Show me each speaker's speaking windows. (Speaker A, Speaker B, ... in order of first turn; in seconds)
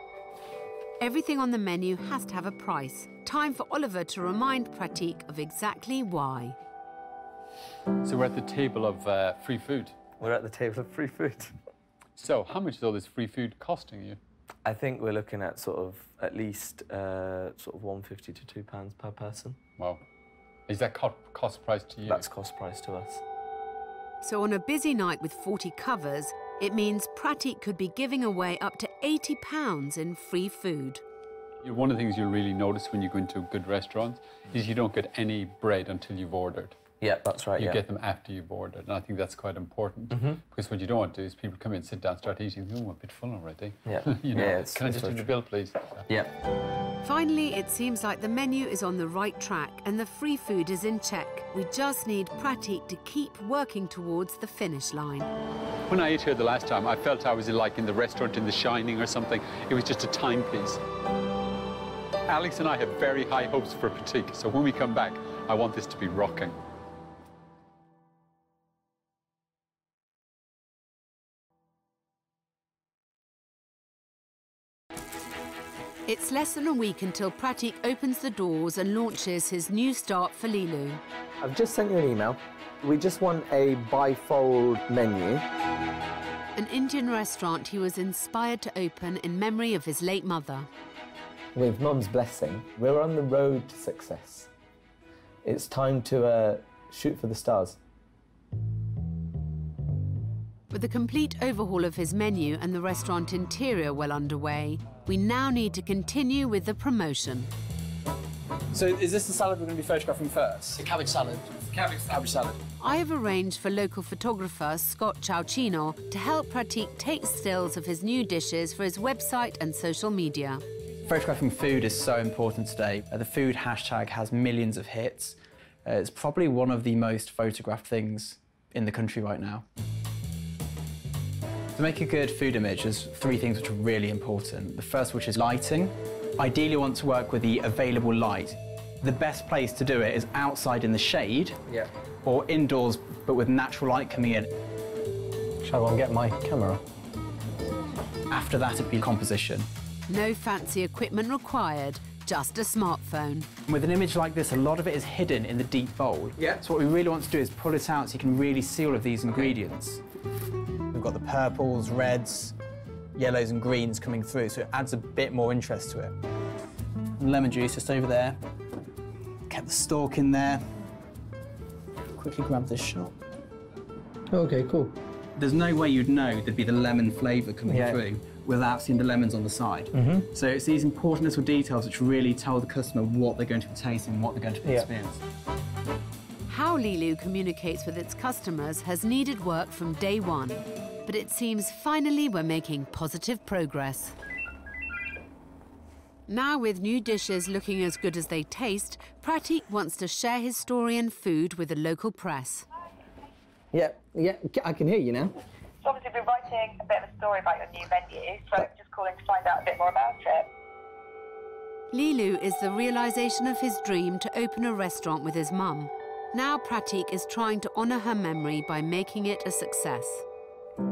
Speaker A: 1.0-6.5, 24.2-31.0, 47.0-55.3, 76.1-81.0, 86.6-90.7, 100.7-107.5, 112.8-120.6, 150.1-153.5, 186.5-194.1, 196.3-202.7, 211.9-220.2
Speaker B: 8.0-9.9, 12.2-14.2, 19.8-20.0, 20.7-22.2, 31.6-36.8, 37.6-46.1, 55.9-60.8, 62.3-66.6
Speaker C: 10.2-11.6, 14.6-19.6, 22.1-23.2, 37.0-37.8, 40.1-40.4, 43.9-45.3, 46.1-46.4, 81.4-85.4, 91.5-94.5, 95.4-97.8, 145.6-146.8, 174.3-174.9, 177.7-178.0, 179.9-180.2, 203.7-205.4
Speaker D: 108.7-112.6, 121.1-129.6, 131.8-141.6, 142.2-144.5, 148.3-149.7, 153.7-160.0, 160.9-162.6, 163.2-166.1, 167.2-168.4, 169.5-170.6, 172.2-173.1, 175.4-185.2
Speaker E: 205.8-210.5